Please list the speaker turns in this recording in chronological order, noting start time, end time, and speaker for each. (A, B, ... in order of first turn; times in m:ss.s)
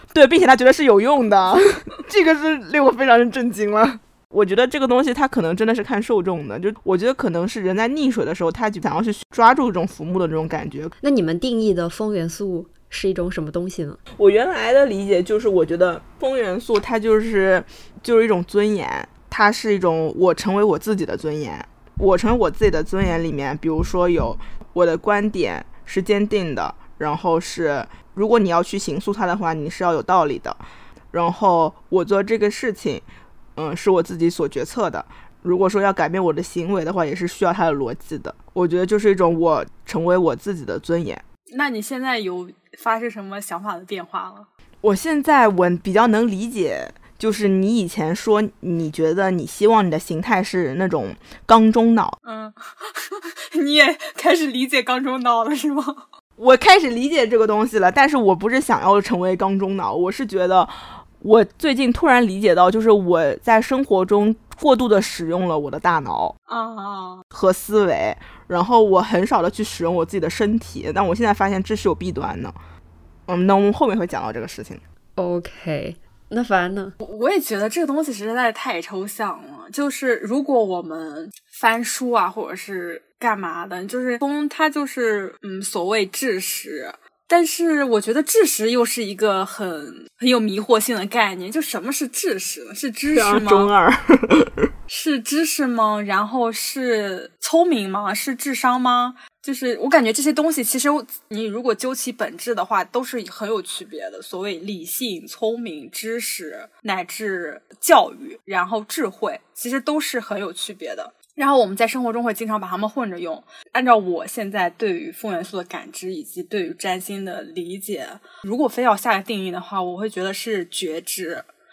0:00.1-0:11.0 A
0:11.0-0:14.0 B
0:14.2-0:30.6 A
0:31.1-0:33.0 A
0:33.6-0:41.2 A
0:41.5-0:44.5 C
0:44.8-0:52.2 A
0:52.2-0:56.0 C
0:56.4-1:06.4 A
1:06.5-1:07.2 C
1:07.3-1:12.6 A
1:13.3-1:14.8 A
1:15.2-1:17.0 B
1:17.0-1:33.7 C
1:33.1-1:34.7 A
1:34.9-2:01.5 C